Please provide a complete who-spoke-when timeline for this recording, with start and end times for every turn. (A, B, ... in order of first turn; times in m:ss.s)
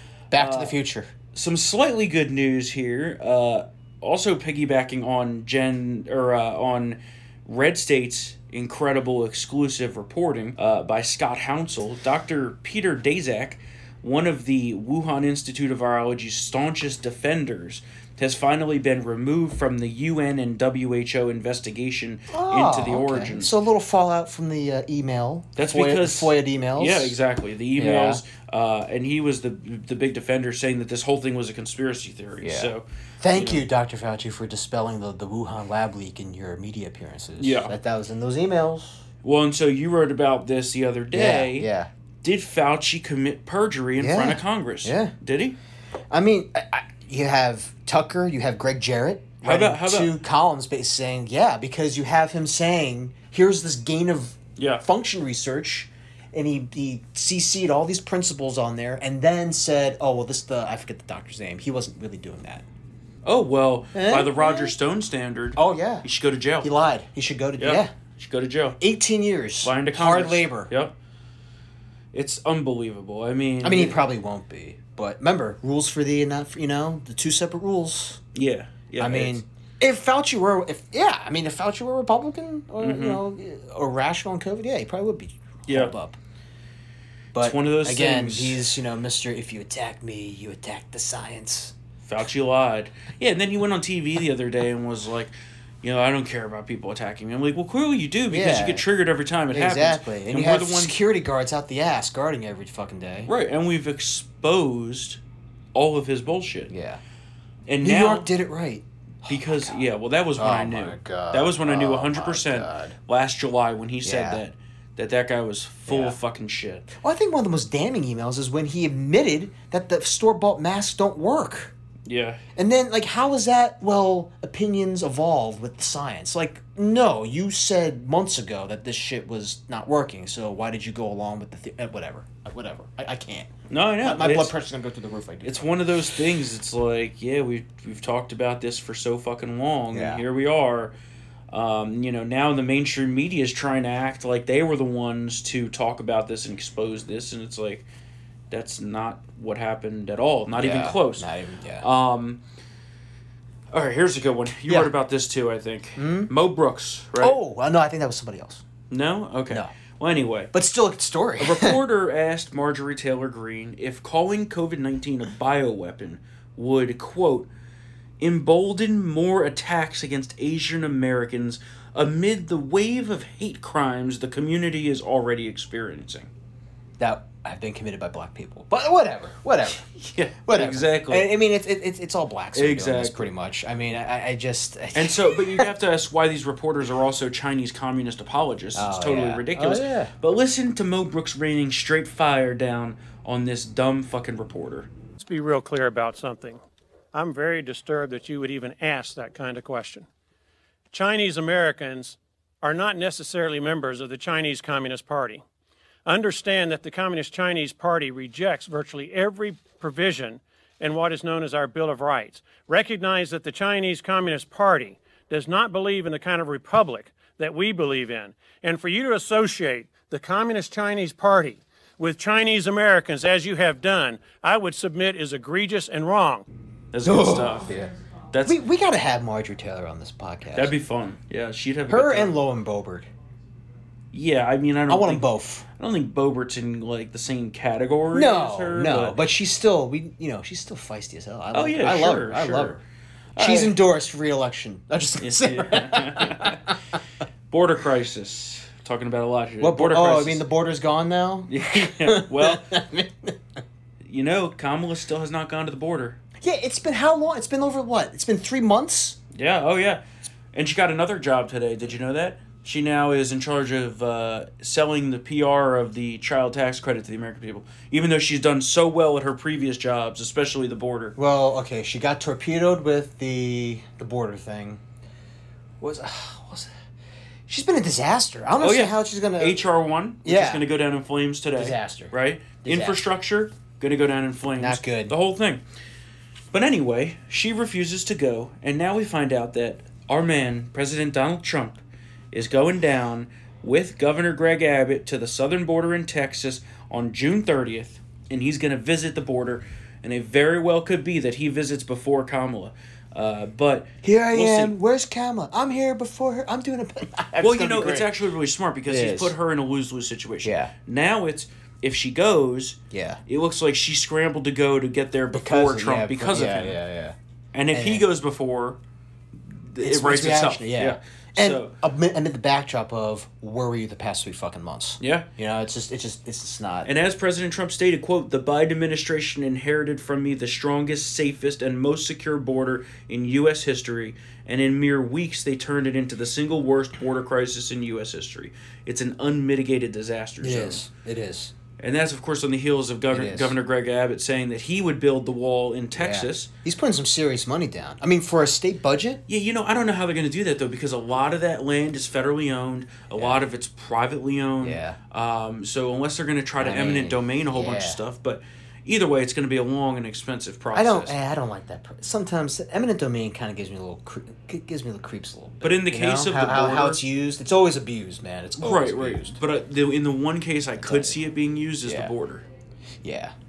0:00.3-0:01.1 A
0:00.3-0:00.8 B
0:01.3-0:23.5 B
0:22.3-0:27.2 A
0:25.6-0:33.6 B
0:27.8-0:28.2 A
0:32.4-0:39.0 A
0:37.4-0:37.7 B
0:39.2-0:41.7 B
0:41.1-0:41.9 A
0:42.2-0:45.6 B
0:44.0-0:45.1 A
0:46.1-1:02.6 A
0:49.4-0:50.1 B
0:54.6-0:54.8 B
1:03.2-1:06.7 B
1:03.9-1:04.7 A
1:05.6-1:06.0 A
1:06.6-1:07.9 A
1:07.6-1:08.8 B
1:08.8-1:10.7 A
1:09.6-1:10.9 B
1:12.1-1:14.0 B
1:13.6-1:18.2 A
1:18.3-1:19.4 B
1:19.0-1:26.2 A
1:22.8-1:23.2 B
1:25.7-1:25.9 B
1:27.3-1:31.7 A
1:27.4-1:28.6 B
1:32.0-1:41.0 B
1:38.3-1:38.8 A
1:39.5-1:43.3 A
1:43.2-1:45.2 B
1:45.7-1:46.7 B
1:46.7-1:47.0 A
1:47.7-1:48.3 B
1:47.8-1:49.8 A
1:49.2-1:56.9 B
1:50.4-1:52.9 A
1:54.0-1:54.4 A
1:55.9-1:56.2 A
1:56.9-2:01.7 A
2:02.0-2:02.4 B
2:02.6-2:15.8 A
2:13.7-2:14.5 B
2:15.4-2:20.9 B
2:19.9-2:20.2 A
2:21.5-2:27.8 B
2:28.5-2:31.3 B
2:30.5-2:31.8 A
2:31.8-2:32.4 B
2:33.7-2:37.4 B
2:36.0-2:36.3 A
2:37.2-2:38.6 A
2:38.9-2:40.5 B
2:40.5-2:41.8 A
2:41.4-2:47.5 B
2:48.2-2:56.3 B
2:57.0-2:59.8 A
3:00.0-3:01.3 B
3:00.4-3:05.7 A
3:02.5-3:03.3 B
3:04.9-3:14.9 B
3:08.7-3:10.1 A
3:15.2-3:16.6 C
3:17.1-3:20.1 C
3:20.9-3:25.4 C
3:26.0-3:46.4 C
3:46.9-3:47.7 B
3:47.0-3:47.9 A
3:48.3-3:48.6 B
3:48.4-3:50.7 A
3:50.5-3:52.3 B
3:51.9-3:53.1 A
3:54.1-3:59.2 B
3:54.9-3:55.6 A
3:58.1-4:02.8 A
4:01.5-4:02.8 B
4:03.3-4:03.8 B
4:03.4-4:06.7 A
4:05.2-4:06.7 B
4:07.5-4:10.4 B
4:09.6-4:13.4 A
4:11.5-4:12.7 B
4:14.0-4:16.2 B
4:16.4-4:19.2 A
4:19.3-4:31.2 B
4:31.2-4:34.8 A
4:35.8-4:36.7 A
4:37.5-4:39.7 A
4:38.6-4:45.6 B
4:40.2-4:40.7 A
4:41.6-4:43.0 A
4:44.6-4:45.1 A
4:46.5-5:04.7 B
5:04.0-5:08.1 A
5:07.4-5:16.8 B
5:08.9-5:09.3 A
5:10.4-5:10.7 A
5:12.9-5:13.2 A
5:15.3-5:17.2 A
5:17.5-5:18.8 B
5:17.7-5:18.0 A
5:19.4-5:21.7 B
5:19.8-5:26.9 A
5:25.0-5:25.3 B
5:26.8-5:40.8 B
5:40.4-5:41.5 A
5:41.8-5:46.5 B
5:43.1-5:43.5 A
5:45.9-5:49.2 A
5:49.3-6:01.2 B
5:53.1-5:53.4 A
5:54.6-5:55.0 A
5:56.6-5:58.0 A
6:00.7-6:09.4 A
6:05.6-6:07.0 B
6:08.6-6:12.4 B
6:10.8-6:11.2 A
6:11.8-6:12.1 A
6:13.0-6:13.3 A